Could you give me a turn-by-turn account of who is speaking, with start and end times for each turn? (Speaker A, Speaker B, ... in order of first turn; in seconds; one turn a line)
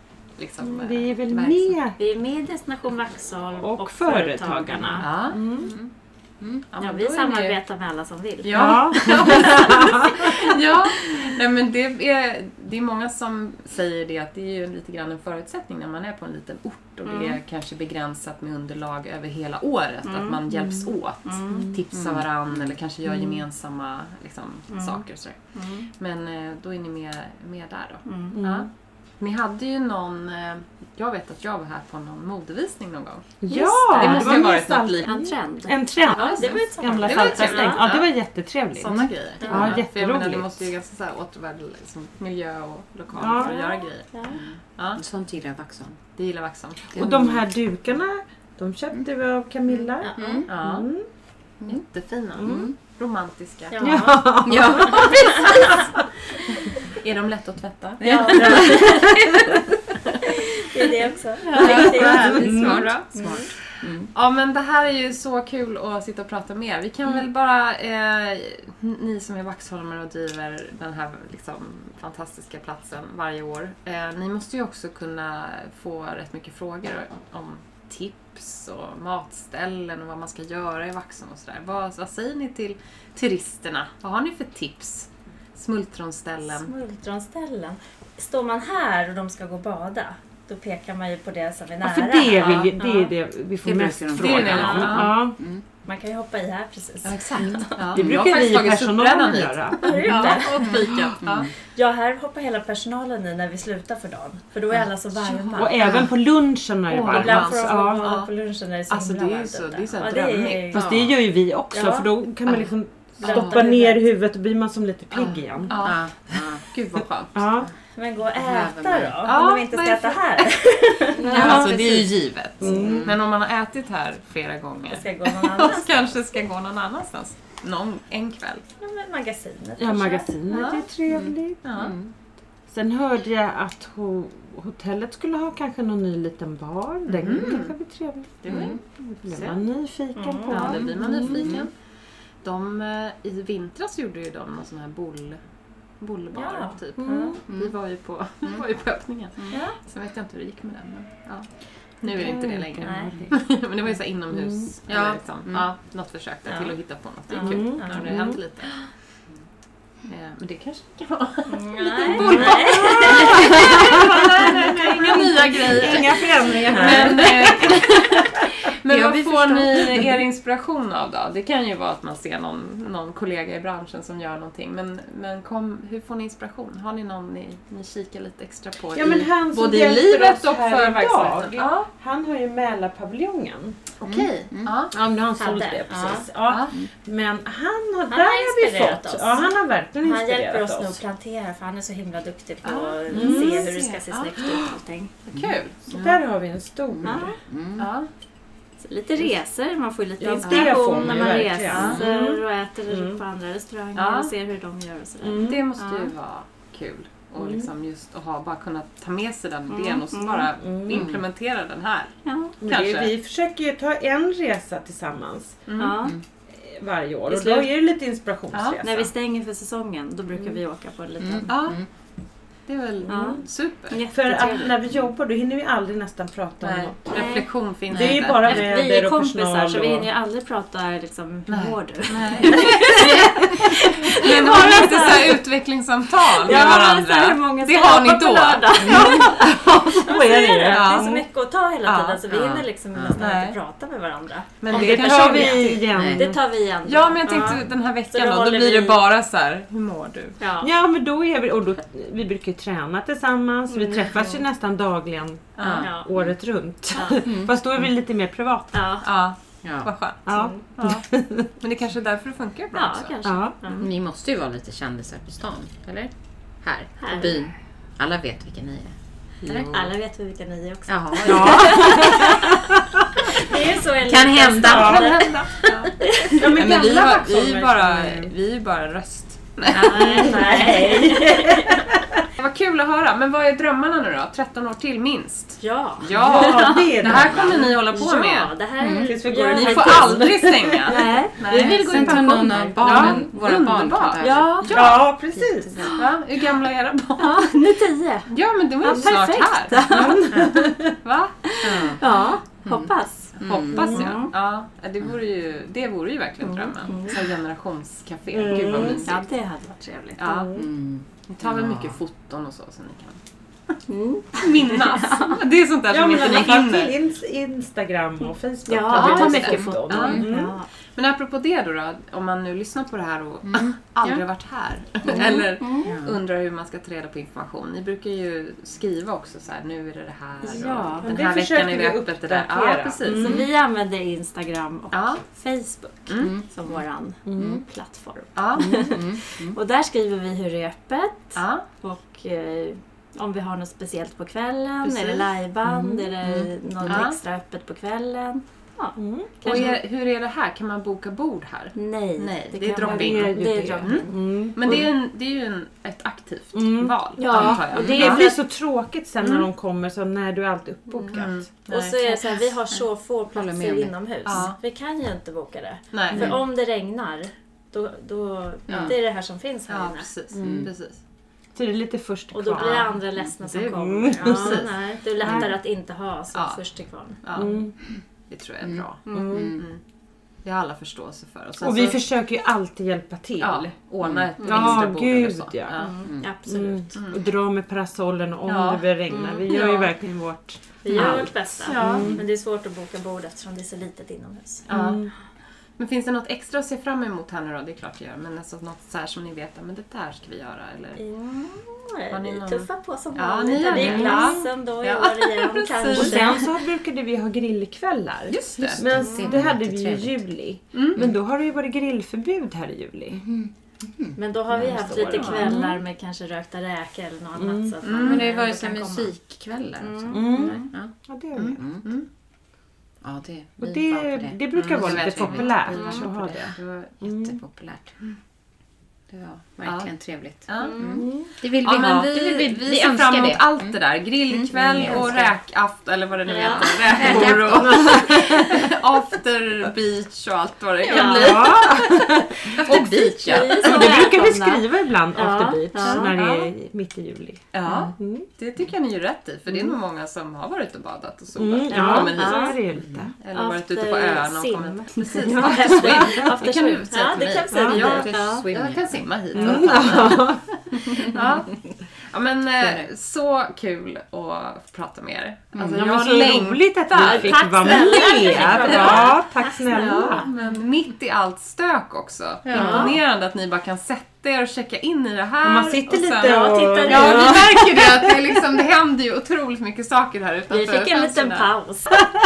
Speaker A: 0.4-1.8
Speaker B: 0.7-2.0
Speaker C: 2.0-5.1
Speaker B: 3.6-5.7
Speaker A: 5.0-5.4
Speaker D: 5.6-5.9
Speaker A: 6.7-7.6
Speaker C: 6.8-11.3
Speaker A: 8.4-25.4
Speaker B: 8.5-10.3
Speaker C: 17.1-17.4
Speaker C: 20.0-20.4
Speaker C: 21.2-21.8
Speaker D: 21.9-22.7
Speaker C: 24.7-25.9
Speaker A: 26.0-28.7
Speaker C: 28.1-28.4
Speaker B: 28.3-28.7
Speaker A: 29.2-33.4
Speaker B: 33.4-38.9
Speaker C: 33.5-37.9
Speaker A: 33.9-35.1
Speaker A: 36.1-38.1
Speaker A: 38.7-44.1
Speaker C: 39.4-39.8
Speaker B: 39.5-40.5
Speaker B: 43.2-43.6
Speaker C: 43.2-44.4
Speaker D: 44.3-46.0
Speaker A: 44.8-45.0
Speaker A: 46.2-47.1
Speaker D: 47.0-47.3
Speaker B: 47.0-51.0
Speaker C: 50.0-50.5
Speaker D: 50.1-50.5
Speaker A: 50.5-50.9
Speaker A: 51.7-55.8
Speaker D: 52.4-52.7
Speaker C: 53.7-55.9
Speaker B: 53.8-55.9
Speaker D: 54.5-55.3
Speaker A: 56.5-59.6
Speaker D: 58.0-59.0
Speaker C: 58.0-59.6
Speaker B: 58.4-58.9
Speaker A: 60.1-63.5
Speaker C: 60.2-63.5
Speaker D: 61.5-64.1
Speaker B: 61.7-62.9
Speaker A: 64.1-86.7
Speaker C: 86.5-93.1
Speaker B: 91.8-95.4
Speaker A: 92.4-92.7
Speaker D: 93.6-95.6
Speaker A: 94.2-95.2
Speaker C: 94.5-95.1
Speaker C: 95.8-98.1
Speaker A: 97.0-101.5
Speaker B: 97.4-101.1
Speaker C: 99.8-100.9
Speaker D: 100.6-101.5
Speaker C: 101.6-106.0
Speaker A: 104.8-106.1
Speaker B: 105.5-108.2
Speaker A: 106.9-108.3
Speaker C: 107.0-111.1
Speaker A: 108.9-110.9
Speaker B: 110.7-115.8
Speaker D: 110.7-111.1
Speaker C: 111.7-112.1
Speaker C: 113.2-114.0
Speaker A: 113.2-113.6
Speaker A: 115.1-117.4
Speaker D: 115.8-116.6
Speaker B: 117.3-117.7
Speaker C: 117.9-121.9
Speaker D: 118.4-119.2
Speaker A: 119.2-120.6
Speaker A: 121.1-128.6
Speaker B: 121.3-122.1
Speaker B: 122.6-123.1
Speaker D: 122.7-123.2
Speaker C: 124.9-126.1
Speaker C: 128.8-130.9
Speaker B: 129.8-131.6
Speaker D: 131.1-132.1
Speaker A: 131.6-131.9
Speaker B: 132.7-141.6
Speaker A: 137.1-137.7
Speaker A: 138.4-139.6
Speaker D: 138.5-138.8
Speaker C: 140.1-140.9
Speaker A: 140.5-141.7
Speaker D: 141.2-141.6
Speaker A: 142.4-145.4
Speaker A: 146.0-151.5
Speaker C: 146.3-147.4
Speaker B: 147.0-147.4
Speaker C: 149.5-149.7
Speaker A: 152.0-158.8
Speaker B: 152.2-153.3
Speaker C: 152.8-153.2
Speaker B: 154.3-154.7
Speaker D: 154.9-155.7
Speaker C: 156.5-156.7
Speaker C: 157.3-158.4
Speaker B: 157.4-158.4
Speaker A: 160.1-181.9
Speaker C: 161.5-168.2
Speaker B: 162.1-167.9
Speaker D: 168.9-170.2
Speaker B: 178.9-183.8
Speaker A: 184.0-184.9
Speaker D: 184.0-184.8
Speaker B: 184.9-191.0
Speaker C: 185.4-186.3
Speaker A: 186.4-186.7
Speaker C: 188.1-195.1
Speaker A: 192.6-194.5
Speaker B: 193.1-193.7
Speaker A: 195.3-196.2
Speaker B: 195.9-197.3
Speaker D: 196.9-197.9
Speaker C: 197.0-197.4
Speaker A: 197.8-198.1
Speaker C: 198.8-206.1
Speaker B: 200.2-203.2
Speaker A: 200.4-201.1
Speaker A: 201.7-202.0
Speaker A: 203.9-204.3
Speaker B: 205.2-205.7
Speaker A: 205.4-213.1
Speaker B: 207.4-207.7
Speaker C: 209.7-210.5
Speaker B: 210.6-211.1
Speaker D: 210.9-211.2
Speaker C: 212.2-212.6
Speaker B: 212.6-215.6
Speaker A: 215.7-216.1
Speaker C: 215.8-216.2
Speaker B: 216.5-219.1
Speaker C: 217.3-217.7
Speaker A: 218.5-218.8
Speaker C: 218.8-221.5
Speaker D: 221.2-221.9
Speaker A: 221.5-221.8
Speaker A: 222.7-224.0
Speaker C: 223.1-224.7
Speaker B: 223.1-223.4
Speaker B: 224.1-227.3
Speaker A: 226.6-228.7
Speaker C: 227.1-227.5
Speaker B: 227.9-230.1
Speaker C: 228.0-235.4
Speaker A: 231.5-239.7
Speaker B: 232.5-233.2
Speaker B: 234.4-235.1
Speaker C: 236.3-249.0
Speaker B: 238.8-241.2
Speaker A: 240.7-241.2
Speaker A: 241.8-243.6
Speaker D: 242.3-243.2
Speaker A: 244.6-245.9
Speaker B: 244.7-246.4
Speaker D: 245.9-246.2
Speaker A: 246.8-250.4
Speaker C: 250.4-250.7
Speaker B: 250.6-258.7
Speaker C: 253.7-254.4
Speaker A: 255.6-256.0
Speaker D: 255.6-255.9
Speaker C: 255.8-256.1
Speaker C: 256.9-257.2
Speaker D: 257.2-257.5
Speaker C: 258.7-259.1
Speaker A: 259.0-261.1
Speaker D: 259.6-259.9
Speaker B: 260.2-261.5
Speaker C: 260.3-260.6
Speaker A: 261.6-263.1
Speaker C: 262.7-263.9
Speaker B: 263.2-263.5
Speaker D: 263.8-269.9
Speaker C: 267.0-267.4
Speaker C: 269.7-276.6
Speaker D: 270.9-272.1
Speaker B: 271.2-273.3
Speaker D: 274.0-275.6
Speaker B: 274.4-275.2
Speaker A: 275.5-280.4
Speaker B: 276.3-278.3
Speaker C: 279.7-281.9
Speaker B: 279.8-282.2
Speaker A: 282.4-288.5
Speaker C: 285.6-293.1
Speaker B: 286.1-287.7
Speaker D: 288.8-289.2
Speaker B: 289.0-291.2
Speaker A: 289.4-295.0
Speaker D: 291.4-294.7
Speaker B: 291.9-293.2
Speaker C: 294.2-295.0
Speaker B: 294.7-295.7
Speaker D: 295.4-296.0
Speaker A: 295.9-297.6
Speaker C: 297.2-298.3
Speaker A: 298.3-302.0
Speaker C: 298.8-300.6
Speaker B: 298.8-299.1
Speaker B: 299.8-300.9
Speaker C: 301.5-304.3
Speaker D: 301.6-302.0
Speaker D: 302.7-304.0
Speaker A: 303.4-309.3
Speaker B: 303.7-304.0
Speaker C: 306.4-307.2
Speaker B: 308.3-309.1
Speaker C: 308.7-310.6
Speaker A: 310.2-310.5
Speaker D: 310.6-311.9
Speaker A: 311.3-313.2
Speaker C: 313.9-315.4
Speaker A: 314.3-316.9
Speaker B: 315.9-320.6
Speaker C: 318.6-320.7
Speaker A: 318.9-320.3
Speaker D: 319.5-319.7
Speaker A: 320.9-333.5
Speaker D: 323.4-324.2
Speaker C: 325.1-325.9
Speaker D: 325.8-326.2
Speaker C: 330.4-331.1
Speaker B: 331.0-333.5
Speaker C: 333.1-349.8
Speaker A: 334.9-335.2
Speaker A: 336.1-336.4
Speaker B: 337.3-337.6
Speaker A: 338.4-338.9
Speaker B: 338.6-338.9
Speaker D: 338.9-339.5
Speaker A: 341.3-341.6
Speaker A: 344.8-345.3
Speaker B: 345.7-346.1
Speaker D: 346.2-346.5
Speaker A: 346.8-347.2
Speaker B: 349.0-349.4
Speaker A: 349.4-358.3
Speaker C: 351.8-354.9
Speaker B: 352.8-354.8
Speaker B: 356.5-361.4
Speaker C: 357.2-358.3
Speaker C: 360.9-370.1
Speaker A: 361.1-362.4
Speaker D: 363.3-363.9
Speaker A: 364.2-364.6
Speaker A: 365.9-366.4
Speaker D: 368.7-368.9
Speaker A: 368.7-369.0
Speaker A: 369.7-371.0
Speaker B: 370.4-370.7
Speaker D: 370.4-370.7
Speaker B: 371.5-372.9
Speaker C: 372.3-377.6
Speaker A: 372.5-375.5
Speaker B: 373.8-374.7
Speaker B: 375.2-375.5
Speaker A: 376.3-376.6
Speaker A: 377.2-377.5
Speaker B: 377.4-377.7
Speaker A: 378.3-379.8
Speaker D: 378.6-379.6
Speaker C: 379.1-379.6
Speaker B: 379.1-379.6
Speaker A: 380.4-382.0
Speaker B: 381.6-383.7
Speaker A: 383.4-385.9
Speaker D: 384.0-384.3
Speaker C: 384.4-384.8
Speaker B: 384.4-385.9
Speaker C: 385.7-387.0
Speaker D: 386.0-386.3
Speaker B: 386.4-392.2
Speaker A: 386.9-387.2
Speaker A: 388.4-389.9
Speaker C: 390.8-394.7
Speaker A: 390.9-392.2
Speaker D: 391.8-392.1
Speaker A: 394.7-395.0
Speaker B: 394.7-395.1
Speaker A: 395.8-401.0
Speaker C: 401.0-406.5
Speaker A: 402.1-406.4
Speaker B: 403.8-404.5
Speaker B: 405.9-413.2
Speaker A: 408.3-408.8
Speaker D: 408.6-410.2
Speaker C: 408.9-409.3
Speaker A: 410.7-411.0
Speaker D: 413.1-415.4
Speaker C: 414.2-419.1
Speaker A: 414.9-415.5
Speaker B: 415.3-415.8
Speaker B: 417.4-417.7
Speaker A: 417.8-418.3
Speaker D: 417.9-421.9
Speaker C: 419.8-420.7
Speaker B: 420.1-421.6
Speaker D: 423.0-425.5
Speaker B: 423.6-427.4
Speaker A: 424.5-426.9
Speaker C: 425.7-426.1
Speaker D: 427.1-428.0
Speaker A: 429.1-429.9
Speaker D: 429.6-435.3
Speaker A: 430.5-444.1
Speaker C: 430.6-431.2
Speaker C: 434.8-435.2
Speaker C: 436.3-437.3
Speaker D: 436.9-437.9
Speaker B: 437.0-438.7
Speaker D: 440.9-441.4
Speaker C: 440.9-442.0
Speaker B: 441.0-442.8
Speaker C: 442.7-446.2
Speaker B: 443.6-448.2
Speaker A: 445.8-446.5
Speaker A: 447.5-452.6
Speaker B: 451.3-453.1
Speaker C: 451.7-452.6
Speaker D: 452.7-453.1
Speaker A: 453.2-461.6
Speaker C: 453.3-458.4
Speaker B: 455.4-456.3
Speaker B: 457.5-457.8
Speaker D: 457.7-458.9
Speaker B: 459.3-460.4
Speaker C: 460.9-461.2
Speaker A: 462.1-469.1
Speaker D: 462.6-462.9
Speaker B: 465.7-470.3
Speaker C: 466.9-470.3
Speaker A: 469.7-481.5
Speaker D: 472.4-472.9
Speaker C: 472.5-472.9
Speaker B: 475.4-477.9
Speaker C: 476.2-477.8
Speaker C: 480.5-482.0